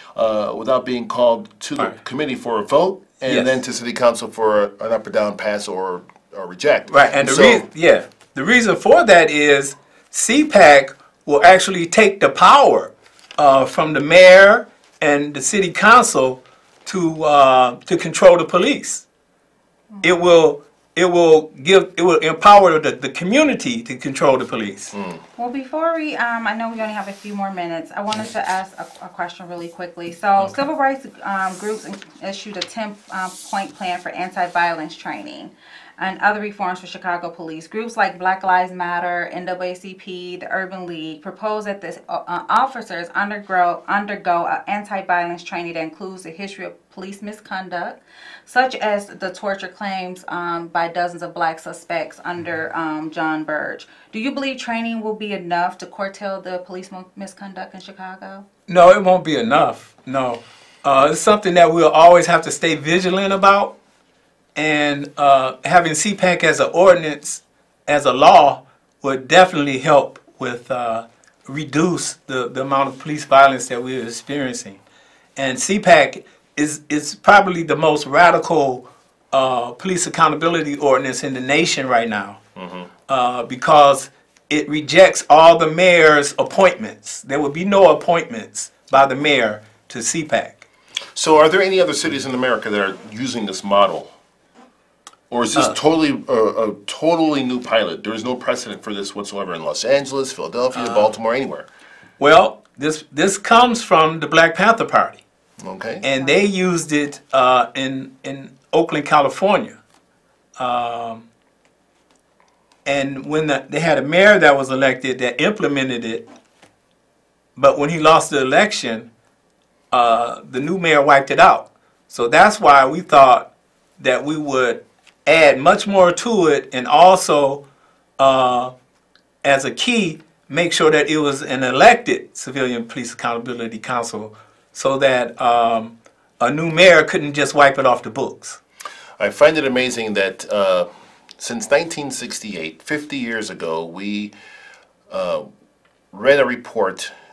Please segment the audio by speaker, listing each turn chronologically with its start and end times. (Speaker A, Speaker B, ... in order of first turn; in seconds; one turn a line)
Speaker A: 0.1-7.6
Speaker B: 3.3-3.5
Speaker B: 6.9-19.0
Speaker B: 20.0-24.9
Speaker A: 24.9-25.2
Speaker C: 25.4-58.4
Speaker B: 58.7-63.7
Speaker B: 64.5-74.8
Speaker B: 75.3-82.4
Speaker A: 82.6-82.9
Speaker B: 83.1-90.6
Speaker A: 91.2-94.1
Speaker A: 95.3-101.7
Speaker B: 100.7-101.1
Speaker B: 102.2-105.2
Speaker A: 105.6-106.0
Speaker B: 106.0-109.8
Speaker B: 110.6-111.3
Speaker B: 112.8-116.2
Speaker B: 117.5-119.1
Speaker B: 119.9-127.6
Speaker B: 128.2-128.7
Speaker B: 129.4-138.6
Speaker A: 139.2-140.9
Speaker A: 141.4-144.3
Speaker A: 145.1-145.5
Speaker A: 146.1-147.1